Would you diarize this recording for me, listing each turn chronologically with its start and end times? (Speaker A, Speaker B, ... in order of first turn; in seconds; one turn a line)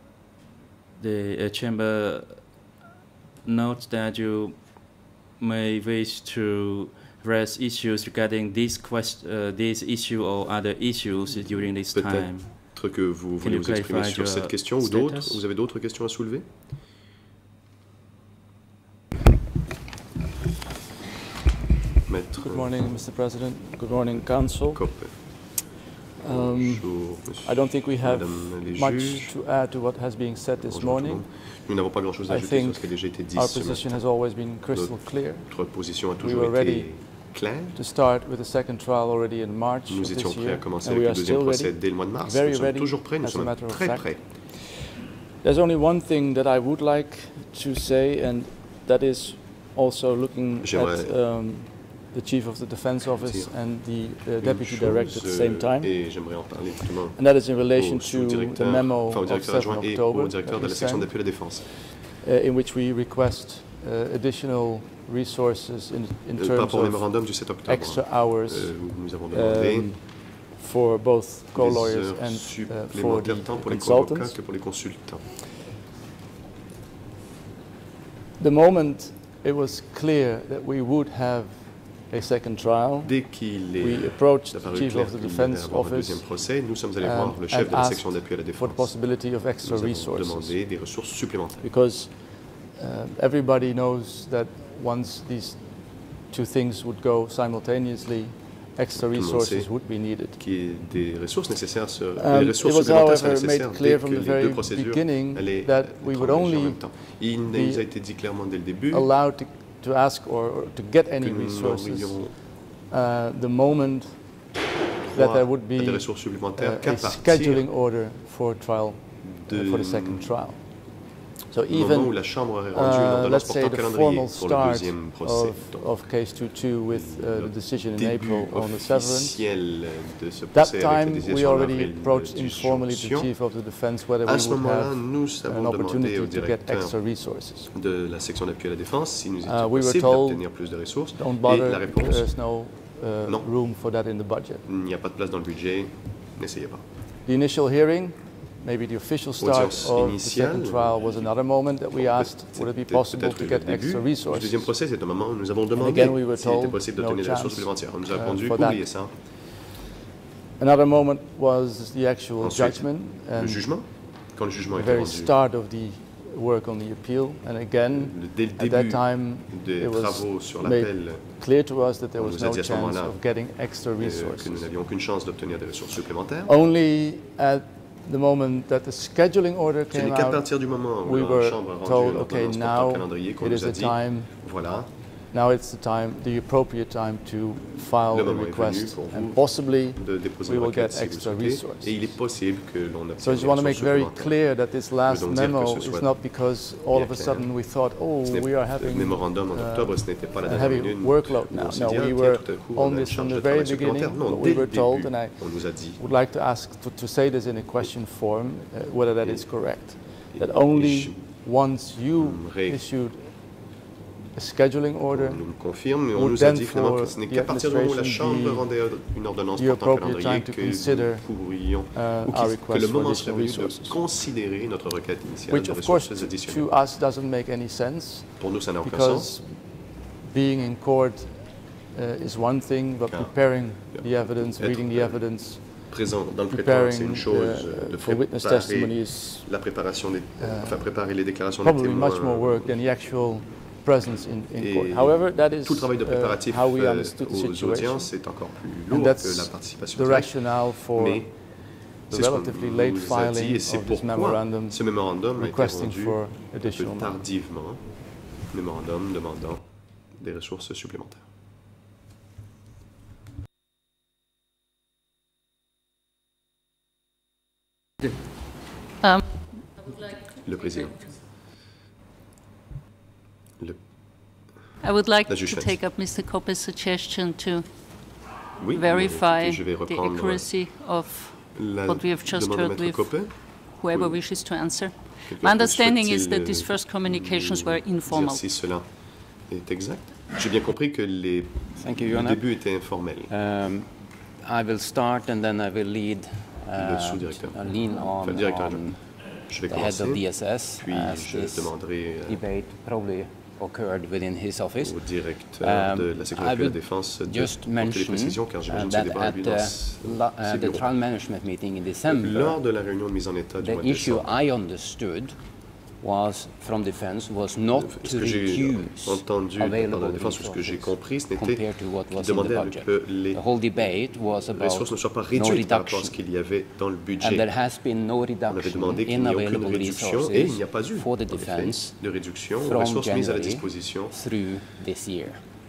Speaker A: 1.0-2.5
Speaker A: 3.4-12.8
Speaker B: 11.9-16.5
Speaker A: 13.4-15.4
Speaker B: 22.1-23.0
Speaker C: 22.4-25.4
Speaker B: 24.1-25.6
Speaker C: 26.2-37.1
Speaker B: 26.2-29.4
Speaker B: 30.6-37.8
Speaker C: 37.7-44.9
Speaker B: 39.9-44.3
Speaker C: 45.4-74.5
Speaker B: 50.6-51.4
Speaker B: 53.1-61.7
Speaker B: 66.3-69.9
Speaker B: 71.5-75.3
Speaker C: 78.4-100.4
Speaker B: 83.0-91.6
Speaker B: 99.0-109.2
Speaker C: 102.2-114.6
Speaker B: 111.2-112.5
Speaker B: 115.1-117.7
Speaker C: 115.1-129.6
Speaker B: 119.2-121.0
Speaker B: 121.7-143.8
Speaker C: 130.5-137.7
Speaker C: 139.4-144.7
Speaker B: 144.7-146.8
Speaker C: 147.2-155.1
Speaker B: 149.4-159.2
Speaker C: 155.7-159.5
Speaker C: 160.6-174.8
Speaker B: 162.4-165.4
Speaker B: 167.9-176.6
Speaker C: 176.4-192.5
Speaker B: 179.9-184.9
Speaker B: 188.1-206.0
Speaker C: 193.2-224.1
Speaker B: 209.2-212.9
Speaker B: 215.1-226.9
Speaker C: 225.5-257.4
Speaker B: 228.4-229.4
Speaker B: 233.1-242.8
Speaker B: 244.6-261.3
Speaker D: 269.0-270.3
Speaker B: 270.4-271.3
Speaker B: 273.6-274.6
Speaker D: 274.8-288.5
Speaker B: 275.3-275.8
Speaker B: 278.6-280.5
Speaker B: 281.5-293.3
Speaker E: 291.7-312.7
Speaker B: 296.7-302.4
Speaker B: 304.8-310.9
Speaker B: 312.1-314.4
Speaker E: 313.6-326.3
Speaker B: 317.8-327.6
Speaker E: 327.2-335.5
Speaker B: 328.5-334.2